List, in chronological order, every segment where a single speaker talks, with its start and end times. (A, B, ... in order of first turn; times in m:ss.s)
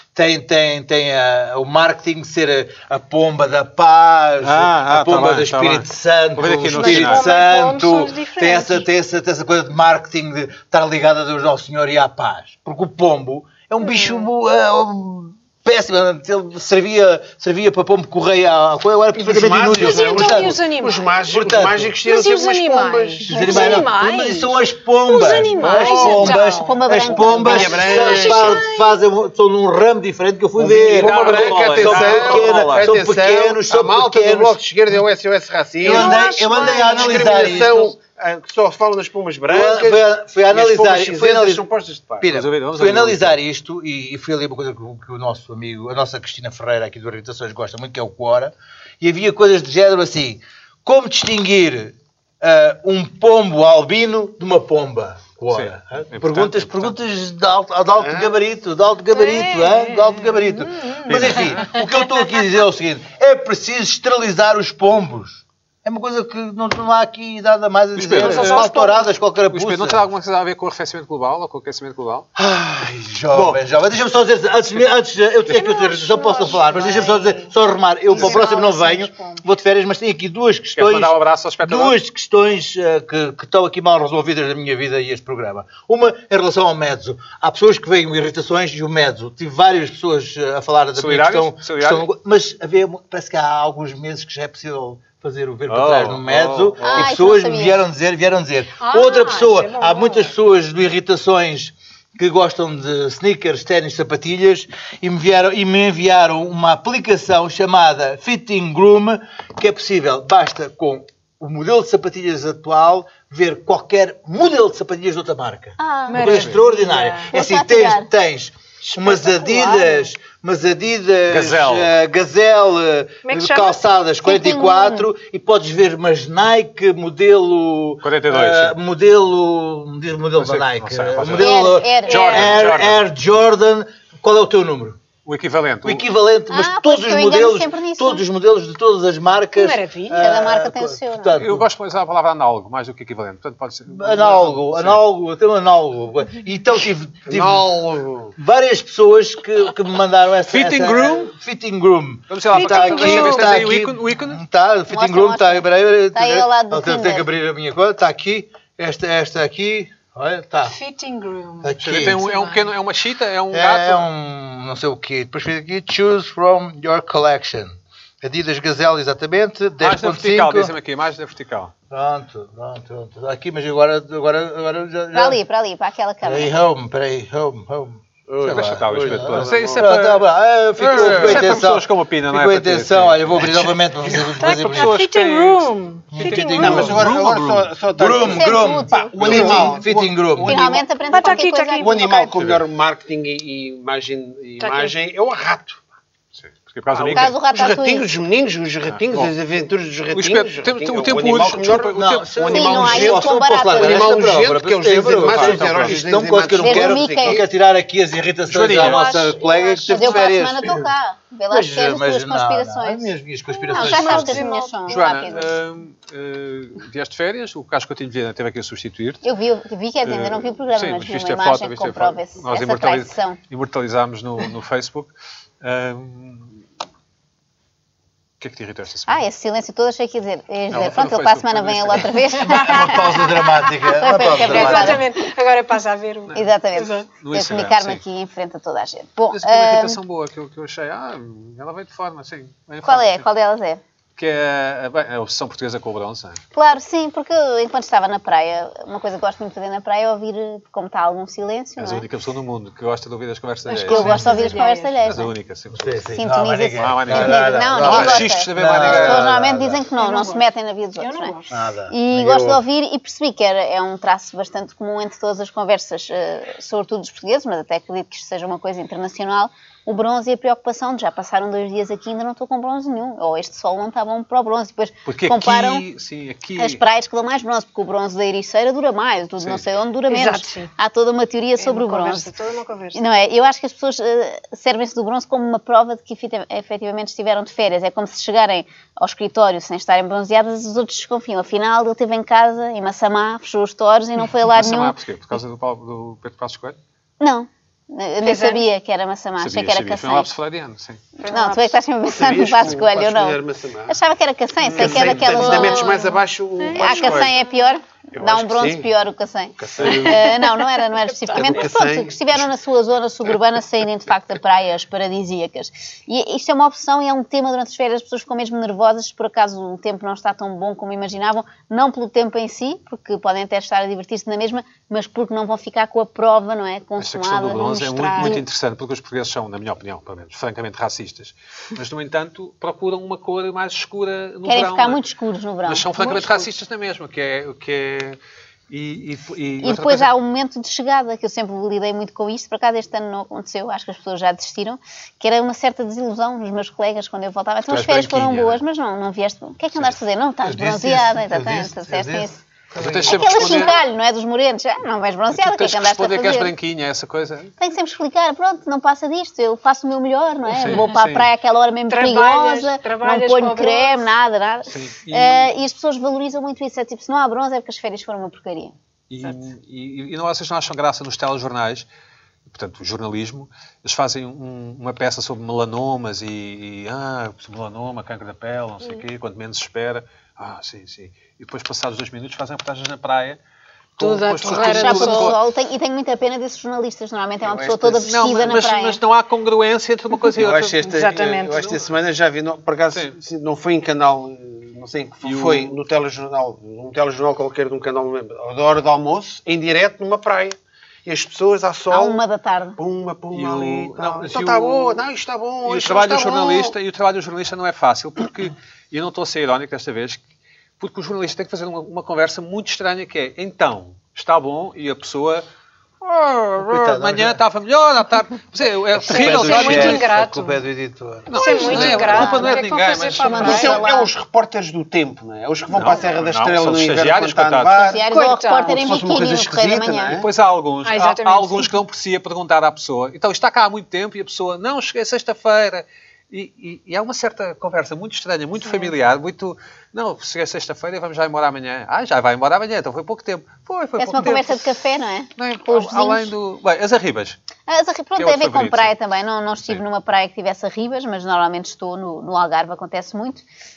0:00.1-0:20.6 A
0:04.4-0:07.2 B
0:06.7-0:08.8 C
0:13.8-0:14.2 C
0:19.1-0:23.8 D
0:19.8-0:21.1 C
0:21.2-0:21.9 A
0:22.0-0:29.0 C
0:23.2-0:34.6 A
0:23.3-0:23.8 E
0:25.6-0:26.1 D
0:25.7-0:28.1 E
0:27.3-0:28.6 D
0:30.6-0:42.3 D
0:30.8-0:32.9 B
0:35.8-0:37.9 C
0:35.8-0:37.9 A
0:39.5-0:41.6 A
0:42.2-1:10.0 A
0:42.2-0:43.4 B
0:55.5-0:56.9 B
0:58.0-0:58.3 D
0:59.1-1:01.6 C
1:01.1-1:01.7 B
1:08.0-1:08.7 B
1:08.2-1:09.0 C
1:09.5-1:12.3 B
1:12.4-2:15.0 A
1:15.5-1:17.5 C
1:18.1-1:19.4 C
1:18.2-1:18.4 B
1:20.8-1:22.0 B
1:31.0-1:32.1 B
1:35.7-1:37.2 B
1:36.8-1:37.8 E
1:38.8-1:40.3 C
1:55.8-1:56.5 E
1:56.1-1:57.3 C
1:56.2-1:56.5 B
1:57.3-1:58.1 E
1:58.8-2:00.1 C
2:01.3-2:01.9 B
2:03.2-2:03.8 C
2:04.2-2:05.1 E
2:08.0-2:08.8 B
2:10.4-2:13.0 B
2:11.4-2:12.5 E
2:15.2-2:16.1 B
2:15.8-2:21.7 A
2:16.5-2:18.2 E
2:19.5-2:20.2 C
2:20.2-2:21.4 E
2:21.3-2:25.0 B
2:23.9-2:27.6 A
2:27.3-2:28.3 D
2:28.4-2:40.8 A
2:30.5-2:31.3 B
2:32.3-2:34.4 B
2:32.5-2:33.7 C
2:34.9-2:37.3 E
2:40.6-2:42.7 C
2:41.6-2:42.3 A
2:41.8-2:44.0 B
2:43.5-2:50.7 A
2:49.8-2:51.7 B
2:51.9-2:55.4 A
2:55.1-2:56.5 E
2:56.2-3:05.0 A
2:58.3-2:59.8 D
2:58.5-3:00.2 B
3:00.8-3:05.7 B
3:00.9-3:01.5 D
3:04.4-3:07.1 C
3:06.1-3:10.6 A
3:06.2-3:15.8 D
3:08.2-3:09.8 E
3:10.4-3:12.0 E
3:11.1-3:12.4 C
3:12.3-3:12.6 B
3:14.6-3:15.0 C
3:16.4-3:17.4 B
3:16.9-3:27.4 D
3:17.1-3:18.1 E
3:18.9-3:19.3 B
3:20.1-3:22.4 B
3:21.8-3:30.9 A
3:22.5-3:24.2 E
3:25.2-3:26.0 B
3:26.6-3:27.4 E
3:28.5-3:29.0 B
3:28.7-3:30.4 C
3:29.8-3:33.1 E
3:31.5-3:34.5 A
3:33.5-3:35.0 C
3:33.7-3:35.5 E
3:34.9-3:39.2 B
3:39.2-3:43.4 E
3:40.0-3:46.6 B
3:48.4-3:49.2 B
3:49.1-3:55.2 E
3:50.7-3:52.3 B
3:52.4-3:55.0 A
3:52.4-3:57.1 C
3:56.3-4:00.0 E
3:57.0-3:58.0 B
3:59.3-4:03.2 B
4:02.8-4:03.8 E
4:04.2-4:06.4 B
4:06.5-4:12.1 E
4:11.8-4:14.4 B
4:13.7-4:15.3 E
4:13.9-4:14.2 A
4:14.0-4:15.0 C
4:15.0-4:16.1 B
4:15.7-4:19.8 A
4:16.1-4:21.3 E
4:16.8-4:19.3 B
4:19.9-4:21.6 C
4:21.5-4:22.6 A
4:21.9-4:35.8 E
4:35.0-4:36.8 B
4:36.6-4:42.3 E
4:39.4-4:39.7 B
4:40.1-4:40.7 C
4:41.6-4:43.0 C
4:42.9-4:55.0 E
4:54.5-4:56.8 B
4:57.2-5:00.3 E
4:58.2-4:58.6 C
4:59.4-5:01.0 B
5:01.2-5:06.1 E
5:01.2-5:01.7 C
5:02.1-5:04.0 D
5:04.7-5:07.4 D
5:04.8-5:05.3 B
5:05.3-5:07.5 C
5:06.7-5:28.4 E
5:08.2-5:08.9 D
5:09.6-5:10.6 D
5:09.8-5:10.4 C
5:11.2-5:11.7 C
5:11.3-5:12.5 D
5:27.0-5:35.0 B
5:27.6-5:28.4 C
5:34.4-5:35.9 E
5:35.6-5:40.1 B
5:36.0-5:36.4 C
5:39.6-5:52.4 E
5:47.7-5:48.6 B
5:50.4-5:53.7 A
5:52.8-5:53.9 B
5:53.0-5:56.5 E
5:55.3-5:57.5 B
5:57.6-6:08.7 E
6:00.4-6:01.3 B
6:01.9-6:04.1 C
6:04.7-6:05.5 B
6:09.1-6:11.8 B
6:12.4-6:23.4 B
6:24.0-6:25.4 B
6:24.0-6:25.3 C
6:24.6-6:29.0 E
6:27.4-6:28.1 D
6:28.0-6:30.9 B
6:30.3-6:42.2 D
6:30.8-6:31.8 C
6:32.9-6:33.2 B
6:35.2-6:35.7 B
6:41.9-6:42.8 E
6:42.8-6:46.7 D
6:43.3-6:45.0 B
6:45.6-6:50.2 B
6:50.8-6:55.4 B
6:56.0-7:00.1 B
6:56.6-6:57.4 A
6:58.9-7:02.0 A
6:59.1-7:00.6 C
7:01.3-7:03.8 B
7:01.3-7:03.8 C
7:01.4-7:02.6 E
7:03.2-7:04.1 E
7:03.4-7:08.1 D
7:05.7-7:07.9 B
7:07.7-7:10.2 E
7:08.1-7:08.8 C
7:08.6-7:10.2 D
7:10.2-7:24.8 B
7:10.8-7:11.7 C
7:18.6-7:18.9 C
7:24.0-7:26.3 E
7:25.3-7:27.4 B
7:27.7-7:33.4 E
7:28.2-7:28.9 B